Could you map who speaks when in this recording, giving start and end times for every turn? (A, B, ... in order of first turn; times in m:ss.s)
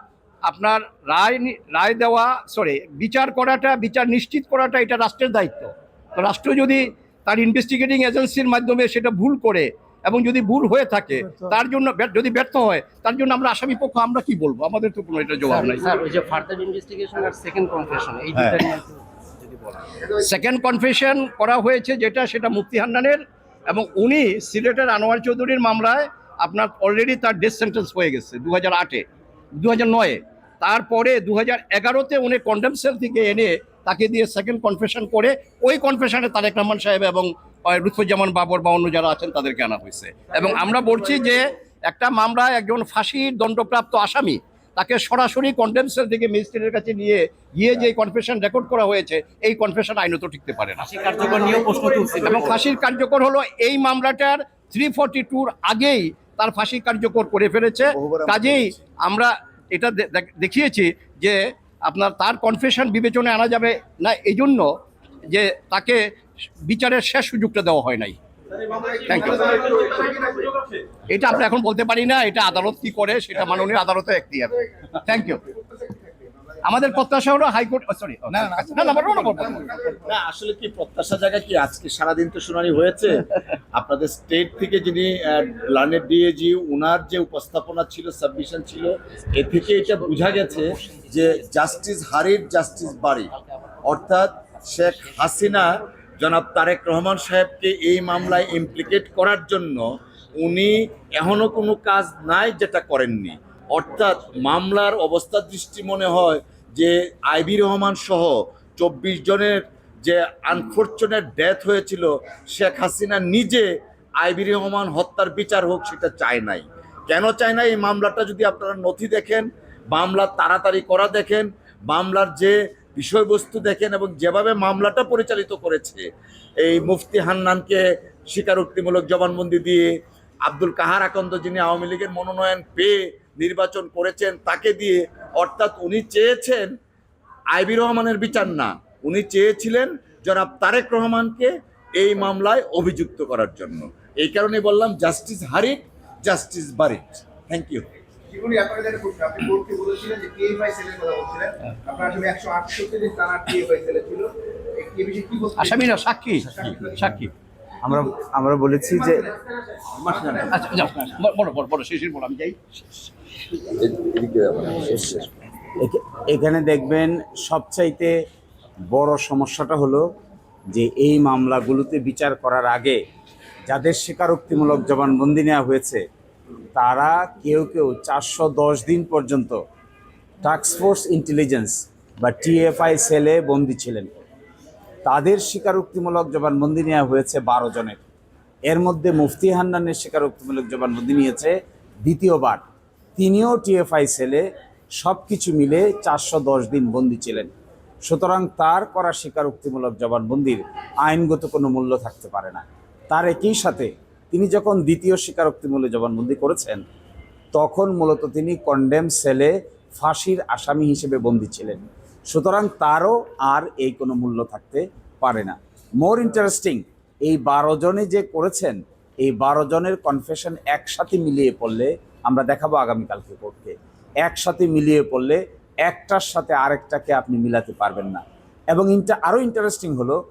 0:00.5-0:16.0 A
0:15.5-0:20.0 B
0:20.0-0:29.0 A
0:29.6-0:51.5 A
0:50.8-0:52.6 B
0:52.2-1:04.7 A
0:57.9-0:58.7 C
1:05.3-1:06.0 A
1:06.6-1:08.2 A
1:08.7-1:10.5 D
1:08.9-1:10.2 A
1:11.1-1:15.4 A
1:16.6-1:19.9 A
1:18.4-1:18.7 C
1:19.6-1:20.0 D
1:20.0-1:33.3 C
1:29.7-1:31.5 B
1:33.4-1:33.6 B
1:33.8-1:53.7 C
1:54.2-2:06.1 C
2:06.6-2:16.8 C
2:17.5-2:27.9 C
2:28.3-2:35.8 D
2:35.6-2:37.3 A
2:36.5-2:36.8 C
2:37.8-2:39.3 E
2:39.9-2:40.6 C
2:40.5-2:43.1 A
2:43.7-2:45.3 C
2:45.8-2:48.2 E
2:48.9-2:50.1 E
2:50.7-2:53.0 E
2:53.7-2:56.0 E
2:56.8-2:59.6 E
3:00.4-3:04.1 E
3:05.0-3:08.0 E
3:08.7-3:12.6 E
3:13.2-3:14.4 E
3:15.0-3:17.5 E
3:18.1-3:26.8 E
3:27.5-3:50.2 E